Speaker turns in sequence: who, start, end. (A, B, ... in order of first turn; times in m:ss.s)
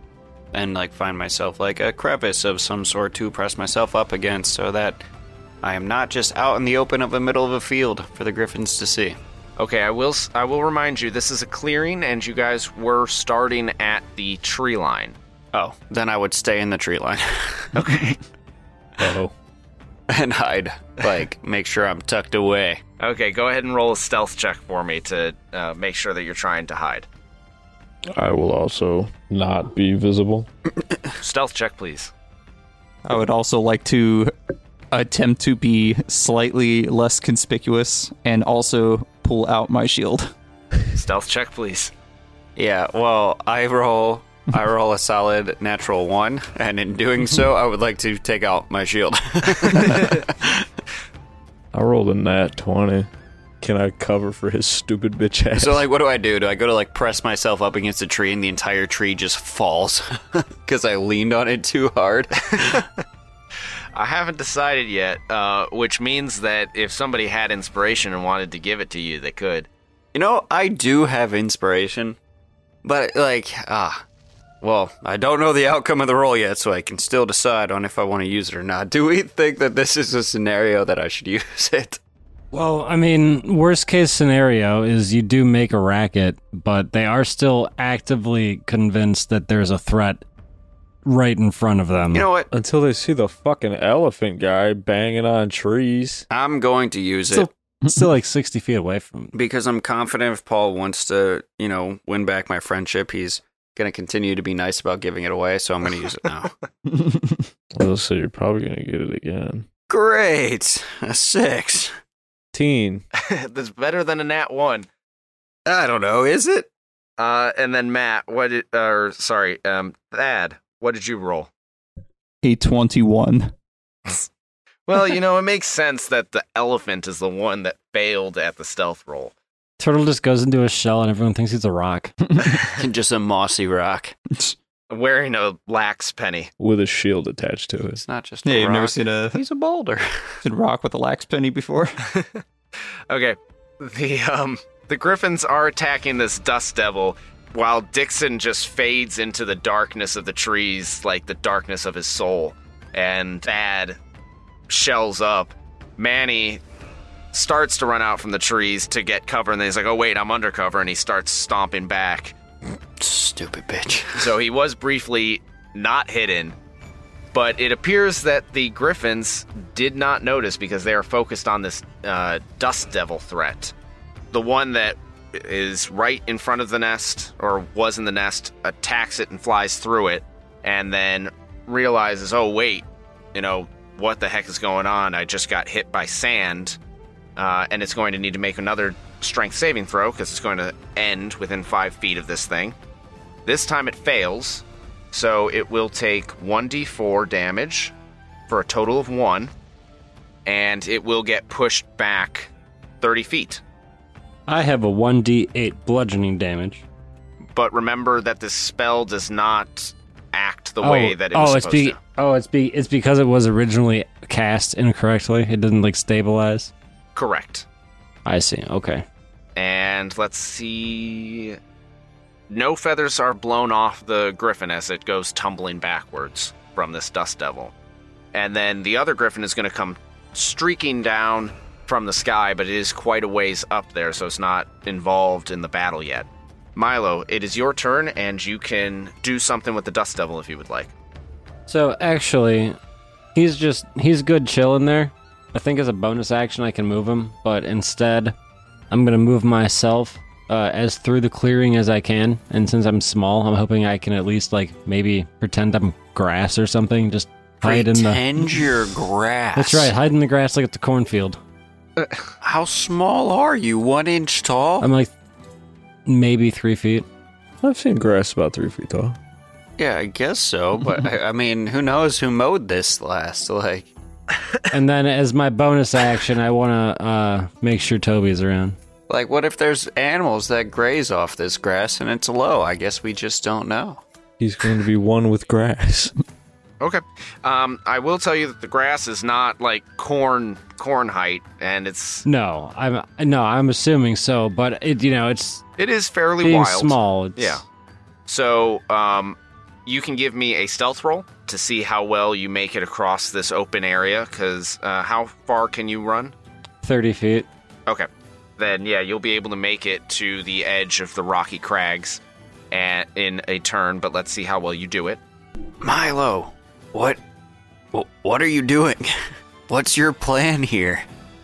0:00.5-0:05.0 A
0:05.6-0:09.2 A
0:09.6-0:15.2 B
0:15.5-0:17.8 A
0:17.7-0:18.2 B
0:19.0-0:19.3 C
0:20.1-0:22.8 A
0:23.0-0:27.1 B
0:28.1-0:30.5 C
0:31.2-0:32.1 B
0:33.0-0:34.3 D
0:34.9-0:40.3 D
0:40.9-0:41.9 B
0:42.6-0:50.7 A
0:51.7-0:53.1 C
0:53.6-0:55.8 C
0:55.6-1:02.8 A
1:03.9-1:09.7 B
1:10.1-1:12.2 A
1:12.8-1:14.0 A
1:14.6-1:22.0 A
1:22.5-1:30.2 E
1:31.0-1:32.3 E
1:32.1-1:32.5 A
1:32.5-1:36.2 C
1:36.3-1:37.5 A
1:37.3-1:39.3 E
1:39.3-1:46.5 A
1:46.9-1:47.4 D
1:47.7-1:49.6 C
1:49.9-1:51.9 A
1:52.5-1:53.0 C
1:53.1-1:54.9 B
1:55.6-1:56.7 A
1:57.2-2:01.5 B
2:02.4-2:03.5 D
2:04.8-2:09.3 B
2:09.8-2:12.1 E
2:12.6-2:14.2 A
2:14.9-2:16.5 B
2:16.6-2:18.0 C
2:18.0-2:20.4 A
2:18.4-2:19.4 D
2:20.4-2:21.9 D
2:22.1-2:22.4 B
2:23.1-2:34.0 B
2:34.7-2:36.6 B
2:37.3-2:42.4 B
2:43.0-2:44.2 A
2:44.1-2:46.6 B
2:47.3-2:53.7 B
2:54.3-3:06.8 B
3:07.4-3:12.8 B
3:13.4-3:17.9 B
3:18.5-3:19.5 B
3:20.4-3:23.6 B
3:24.5-3:26.8 E
3:27.5-3:32.0 B
3:30.8-3:36.7 E
3:37.2-3:37.6 B
3:38.2-3:39.0 E
3:39.6-3:41.6 B
3:42.5-3:47.7 B
3:48.3-4:00.9 B
4:01.7-4:02.8 E
4:03.3-4:08.3 E
4:08.9-4:18.2 E
4:17.6-4:19.9 A
4:19.6-4:21.4 E
4:22.0-4:22.3 B
4:22.4-4:24.9 A
4:24.8-4:25.1 E
4:26.0-4:27.0 E
4:27.6-4:29.2 C
4:29.8-4:33.9 A
4:34.7-4:38.8 E
4:39.1-4:44.0 A
4:44.4-4:46.1 C
4:46.8-4:52.2 B
4:52.2-4:55.6 E
4:55.8-4:57.6 B
4:56.4-4:57.6 E
4:58.3-5:06.3 B
5:06.8-5:07.5 E
5:07.9-5:15.2 B
5:15.8-5:17.2 A
5:17.9-5:21.0 A